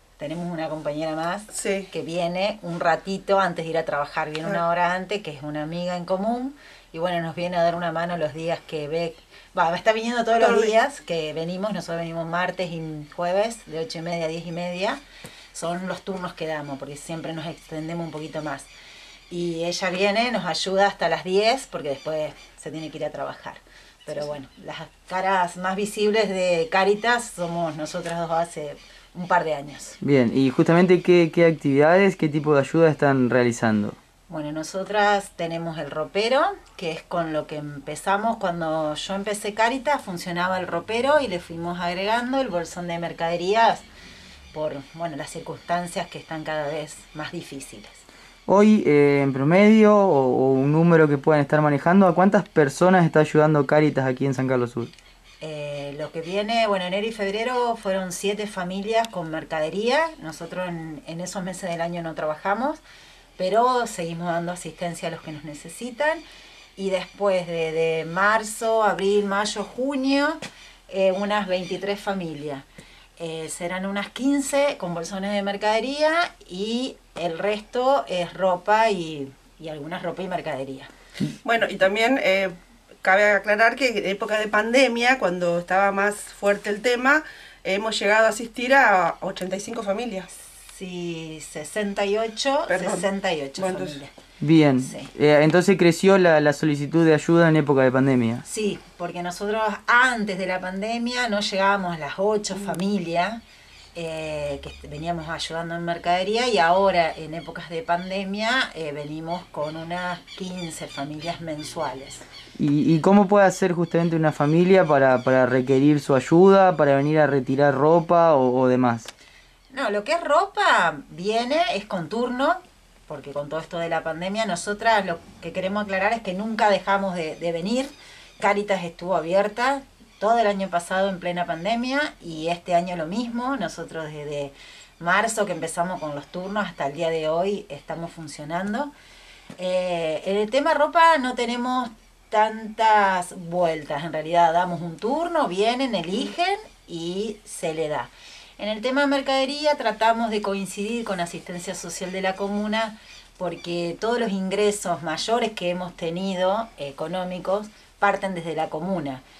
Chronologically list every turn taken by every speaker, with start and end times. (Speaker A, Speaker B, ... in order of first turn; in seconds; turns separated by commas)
Speaker A: 0.2-15.0, Speaker B: 1.5-1.9, Speaker B: 10.4-10.7, Speaker A: 15.5-18.7, Speaker A: 19.3-30.0, Speaker C: 30.0-34.0, Speaker A: 34.3-43.9, Speaker A: 44.5-48.0, Speaker C: 48.5-54.9, Speaker A: 55.4-62.8, Speaker A: 63.4-66.2, Speaker A: 66.8-80.9, Speaker B: 81.4-90.3, Speaker A: 90.5-94.1, Speaker B: 92.7-93.0, Speaker B: 93.6-94.0, Speaker C: 94.4-98.4, Speaker A: 94.8-95.1, Speaker A: 98.4-103.4, Speaker A: 103.9-112.2, Speaker C: 112.6-119.1, Speaker A: 119.7-138.9, Speaker A: 139.6-159.2